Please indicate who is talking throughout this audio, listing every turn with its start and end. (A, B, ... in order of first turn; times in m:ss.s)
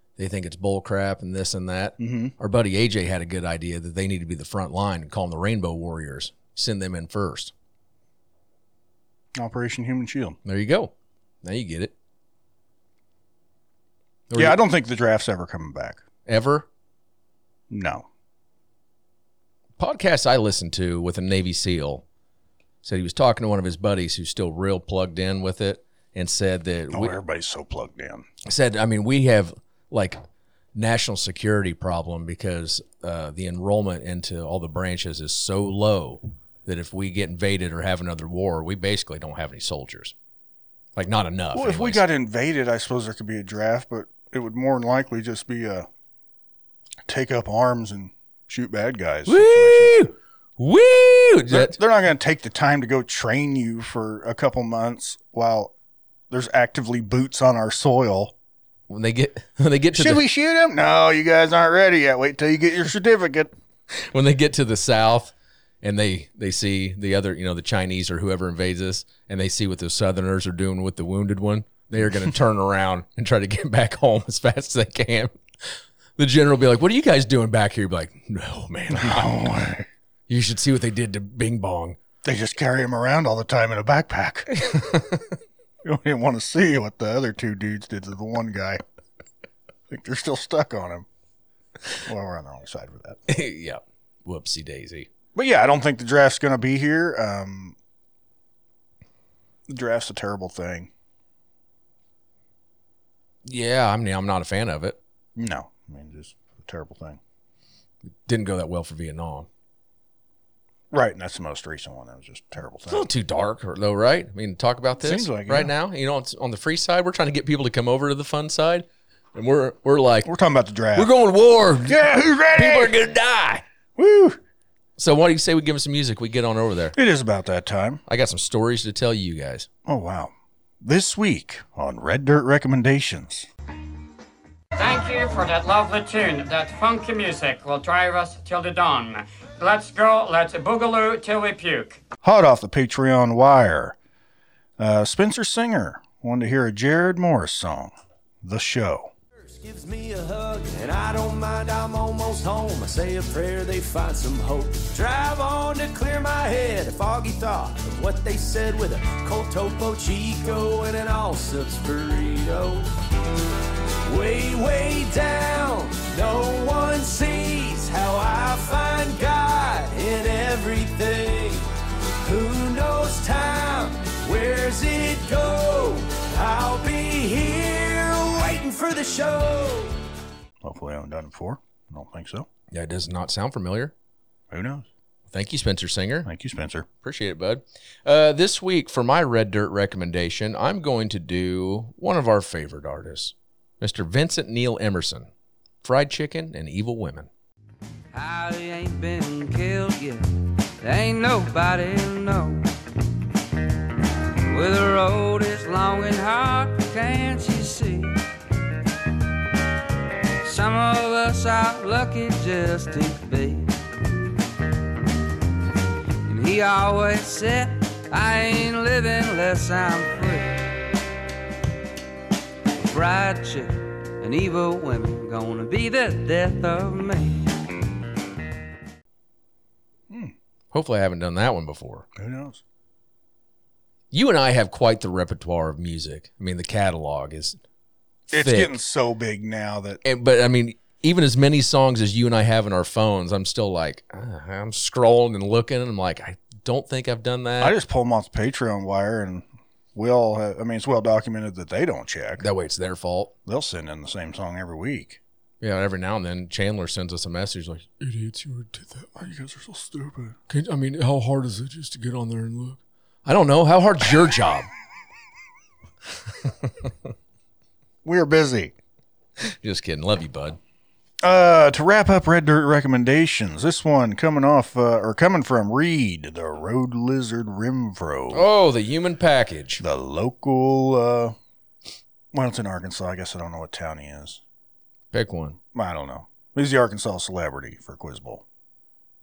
0:00.2-0:07.5 A
0:02.0-0:02.3 B
0:09.4-0:10.4 B
0:10.4-0:11.9 A
0:14.3-0:14.6 A
0:14.3-0:16.0 B
0:16.3-0:16.7 A
0:17.7-0:18.1 B
0:19.8-0:22.0 A
0:22.8-0:27.2 A
0:26.9-0:28.2 B
0:28.4-0:30.2 A
0:30.7-0:40.1 A
0:41.0-0:42.0 A
0:41.5-0:45.9 B
0:47.1-0:50.0 B
0:49.3-0:51.8 A
0:51.5-0:55.7 B
0:56.3-0:58.3 B
0:58.9-1:00.2 A
0:59.9-1:03.5 B
1:03.9-1:19.5 A
1:18.9-1:19.9 B
1:20.3-1:22.0 A
1:22.2-1:25.0 B
1:24.7-1:25.0 A
1:25.8-1:28.8 B
1:29.9-1:31.0 B
1:32.0-1:33.2 B
1:33.3-1:35.1 A
1:35.3-1:37.8 B
1:39.7-1:40.9 B
1:43.4-1:45.0 A
1:45.4-1:47.2 B
1:48.2-1:49.5 A
1:50.9-1:53.1 B
1:52.9-2:00.3 A
1:55.0-1:55.7 B
2:00.2-2:01.1 B
2:00.9-2:03.6 A
2:01.8-2:02.9 B
2:04.0-2:04.4 B
2:05.0-2:06.9 A
2:06.9-2:08.0 B
2:08.1-2:09.7 A
2:09.8-2:13.5 B
2:14.8-2:22.0 C
2:22.2-2:24.0 B
2:24.8-2:29.1 B
2:29.4-2:42.9 D
2:44.0-2:51.7 D
2:52.2-2:59.9 D
3:00.6-3:02.5 B
3:02.7-3:03.9 A
3:04.5-3:04.9 B
3:05.3-3:06.3 A
3:06.2-3:06.8 B
3:07.0-3:15.3 A
3:15.8-3:17.3 A
3:18.1-3:20.2 E
3:20.8-3:22.6 E
3:24.5-3:28.2 E
3:30.4-3:33.7 E
3:36.2-3:40.7 E
3:42.9-3:47.5 E
3:50.7-3:52.0 A
3:52.2-3:52.6 B
3:54.1-3:57.6 A
3:58.3-4:00.0 B
3:58.3-3:58.8 A
4:00.0-4:07.7 A
4:07.6-4:12.4 B
4:12.4-4:13.3 A
4:13.4-4:15.2 B
4:15.6-4:19.1 A
4:19.2-4:20.4 B
4:20.5-4:24.7 A
4:28.0-4:28.7 B
4:29.4-4:30.6 A
4:31.2-4:38.4 B
4:38.3-4:39.8 A
4:39.8-4:41.4 B
4:42.3-4:44.4 B
4:45.1-4:45.6 A
4:45.7-4:48.4 B